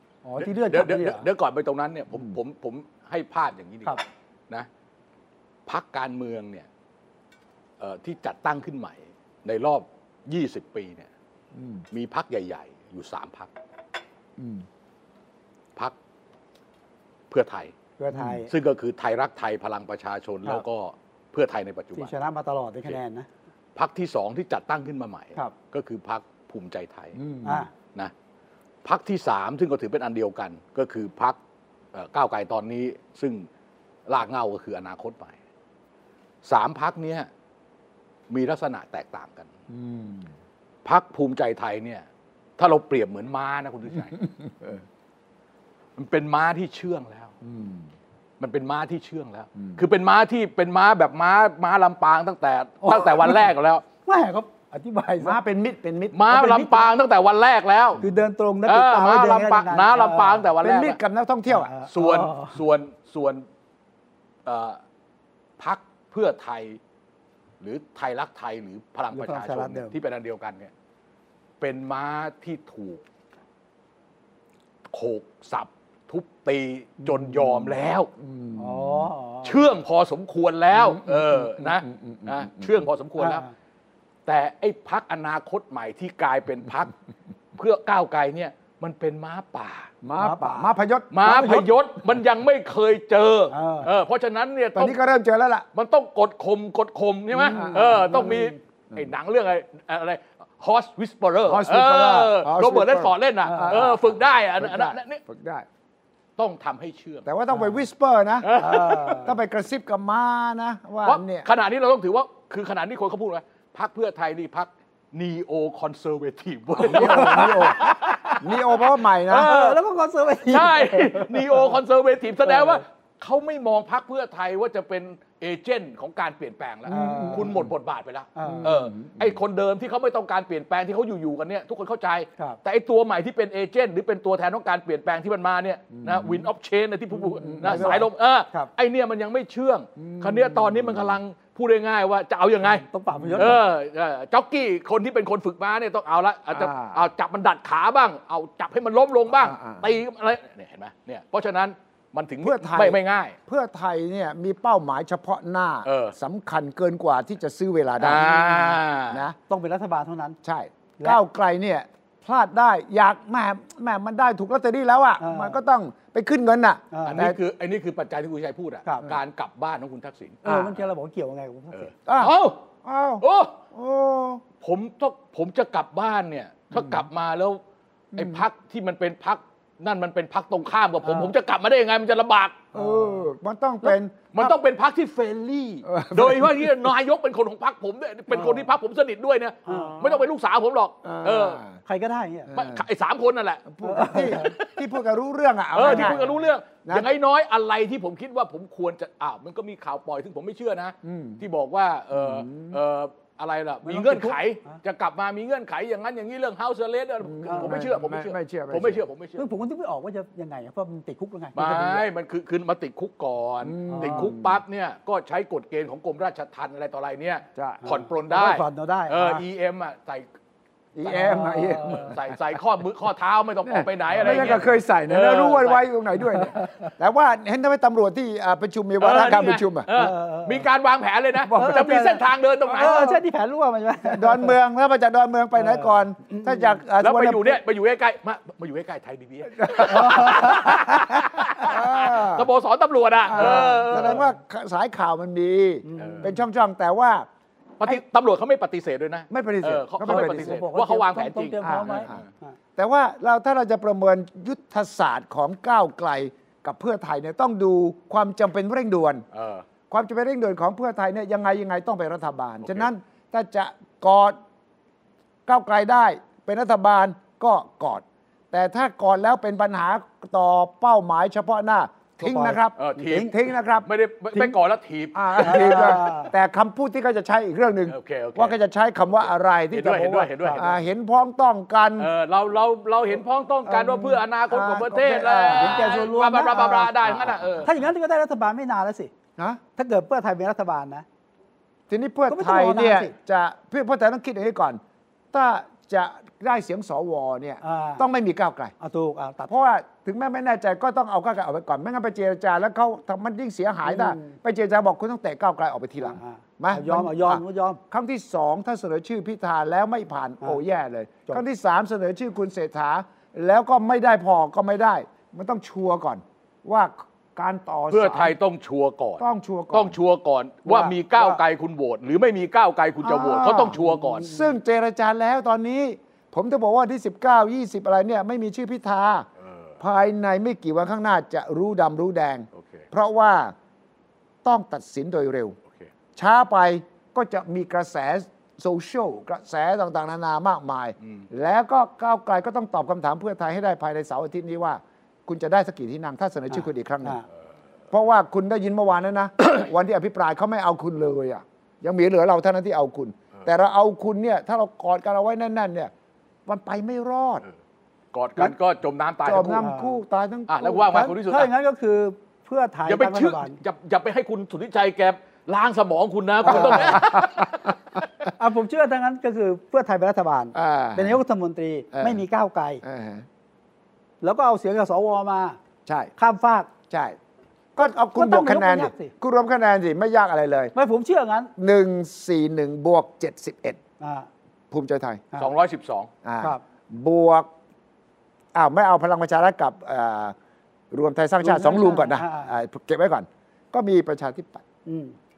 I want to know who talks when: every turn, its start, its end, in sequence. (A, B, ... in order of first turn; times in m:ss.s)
0:00.2-0:01.3 A
0:00.4-0:04.7 B
0:05.7-0:06.7 B
0:07.8-0:11.1 B
0:11.5-0:11.9 C
0:11.9-0:13.5 B
0:14.4-0:14.6 C
0:17.3-0:17.7 B
0:18.0-0:18.5 A
0:18.1-0:18.4 C
0:18.5-0:22.1 B
0:22.0-0:23.3 A
0:23.8-0:27.2 B
0:27.2-0:27.7 C
0:27.4-0:27.7 A
0:28.8-0:31.4 B
0:31.9-0:33.5 B
0:34.1-0:35.3 B
0:36.4-0:37.3 B
0:38.3-0:39.5 B
0:39.7-0:40.3 C
0:40.8-0:42.0 B
0:42.6-0:44.2 B
0:44.4-0:44.8 C
0:46.0-0:47.3 B
0:47.4-0:47.9 C
0:48.4-0:53.8 B
0:49.6-0:49.8 C
0:52.8-0:53.5 A
0:54.0-0:55.4 A
0:55.2-0:56.2 C
0:56.1-0:58.0 B
0:56.3-0:56.9 A
0:58.0-1:00.5 A
0:58.7-1:01.0 B
1:00.6-1:01.7 C
1:01.5-1:02.6 A
1:01.9-1:03.4 B
1:04.5-1:04.8 B
1:05.6-1:06.8 B
1:07.6-1:10.7 B
1:09.1-1:10.0 A
1:11.6-1:13.0 B
1:14.9-1:18.1 B
1:17.3-1:19.1 C
1:18.6-1:19.6 A
1:19.4-1:23.4 B
1:20.7-1:22.8 C
1:23.2-1:23.5 A
1:24.3-1:26.9 B
1:27.6-1:29.9 B
1:30.0-1:31.7 C
1:30.2-1:30.7 A
1:31.1-1:35.0 B
1:31.2-1:31.6 A
1:33.5-1:33.9 A
1:34.8-1:35.7 C
1:35.7-1:45.2 B
1:37.4-1:39.1 C
1:37.5-1:38.6 A
1:41.5-1:44.1 C
1:43.4-1:44.0 A
1:44.6-1:45.7 C
1:46.4-1:47.3 B
1:47.2-1:48.5 C
1:47.5-1:47.8 A
1:48.4-1:49.3 B
1:48.6-1:49.4 A
1:49.2-1:51.5 C
1:51.0-1:58.6 B
1:56.8-1:59.6 C
1:56.8-1:58.4 A
1:59.3-2:01.7 A
1:59.3-1:59.8 B
2:00.5-2:33.4 B
2:02.4-2:02.8 A
2:06.9-2:07.5 A
2:06.9-2:07.7 C
2:08.4-2:08.7 A
2:08.4-2:09.4 C
2:16.0-2:16.5 C
2:17.4-2:18.1 C
2:17.4-2:18.7 A
2:20.0-2:21.2 C
2:22.7-2:23.6 A
2:23.2-2:23.6 C
2:26.5-2:27.0 C
2:29.4-2:29.9 C
2:32.4-2:39.4 C
2:35.8-2:36.1 B
2:38.0-2:39.2 B
2:39.5-2:40.4 A
2:40.4-2:47.4 C
2:45.2-2:45.6 A
2:46.9-2:47.2 A
2:47.1-2:50.5 B
2:50.4-2:51.9 A
2:50.4-2:50.7 C
2:51.7-2:52.6 B
2:52.1-2:54.4 C
2:53.2-2:53.6 B
2:54.6-2:57.6 B
2:56.7-2:57.1 C
2:58.1-2:58.4 C
2:58.1-3:02.7 B
3:01.0-3:01.3 A
3:02.7-3:03.2 A
3:02.7-3:04.5 C
3:03.8-3:11.6 B
3:05.8-3:06.9 C
3:08.3-3:08.7 A
3:09.7-3:10.0 A
3:11.0-3:11.8 C
3:11.9-3:12.5 A
3:12.5-3:12.8 C
3:12.5-3:13.7 B
3:13.7-3:16.2 C
3:13.8-3:14.6 A
3:14.2-3:14.8 B
3:15.8-3:29.5 B
3:15.8-3:16.4 A
3:21.0-3:21.4 C
3:22.1-3:22.8 C
3:23.8-3:24.8 A
3:27.2-3:29.0 C
3:27.5-3:27.8 A
3:29.4-3:32.0 A
3:31.6-3:40.3 B
3:33.6-3:34.6 C
3:33.9-3:34.3 A
3:37.6-3:37.8 C
3:37.8-3:39.4 A
3:41.0-3:42.4 C
3:41.0-3:42.1 A
3:41.8-3:45.9 B
3:43.6-3:49.9 C
3:46.3-3:46.9 A
3:49.0-3:53.2 B
3:50.0-3:50.6 A
3:51.5-3:51.8 C
3:51.5-3:54.6 A
3:52.8-3:53.2 C
3:54.0-3:57.6 C
3:55.6-3:56.8 A
3:57.0-4:04.3 B
3:59.6-4:00.1 C
3:59.7-4:01.3 A
4:01.6-4:02.5 C
4:03.3-4:07.3 C
4:03.3-4:04.2 A
4:05.8-4:06.4 A
4:06.0-4:06.3 B
4:07.8-4:12.3 B
4:09.3-4:10.6 C
4:10.0-4:12.6 A
4:11.6-4:12.2 C
4:12.8-4:19.2 C
4:19.3-4:19.6 B
4:19.9-4:24.4 C
4:22.6-4:22.9 B
4:25.5-4:33.9 C
4:32.2-4:33.3 A
4:32.8-4:36.0 B
4:35.1-4:42.1 C
4:35.4-4:36.3 A
4:37.9-4:38.6 B
4:39.2-4:40.8 B
4:42.0-4:47.7 B
4:43.7-4:46.0 C
4:45.5-4:46.9 A
4:47.0-4:47.7 C
4:47.6-4:49.1 A
4:49.8-4:51.0 A
4:51.9-4:54.8 C
4:52.3-4:53.1 A
4:55.3-4:58.7 C
4:57.6-4:58.0 A
4:58.8-4:59.5 A
4:59.5-5:18.4 C
5:03.8-5:04.4 A
5:06.0-5:07.8 A
5:17.9-5:24.3 B
5:19.2-5:20.0 C
5:20.7-5:21.4 A
5:23.0-5:29.3 C
5:23.7-5:24.5 A
5:29.4-5:29.8 B
5:29.8-5:33.6 C
5:32.5-5:32.8 B
5:34.4-5:35.6 C
5:36.2-5:47.2 C
5:41.0-5:41.3 B
5:46.5-5:47.2 A
5:47.9-5:55.9 C
5:56.5-5:57.4 C
5:58.1-5:59.7 B
5:59.2-6:01.1 C
5:59.6-6:00.0 A
6:00.5-6:01.5 B
6:00.8-6:03.6 A
6:02.9-6:07.8 B
6:06.4-6:07.0 A
6:06.4-6:07.7 C
6:08.4-6:12.8 A
6:10.5-6:11.2 C
6:11.9-6:12.2 C
6:12.8-6:13.3 C
6:14.2-6:15.6 A
6:15.9-6:16.1 C
6:16.2-6:16.7 A
6:16.9-6:17.2 C
6:17.8-6:20.7 C
6:17.8-6:19.1 A
6:20.8-6:21.5 A
6:21.6-6:23.8 C
6:24.0-6:24.3 A
6:24.7-6:25.2 C
6:25.4-6:26.1 B
6:26.2-6:27.5 C
6:28.5-6:30.4 C
6:30.9-6:34.6 C
6:31.4-6:32.5 A
6:34.9-6:35.2 A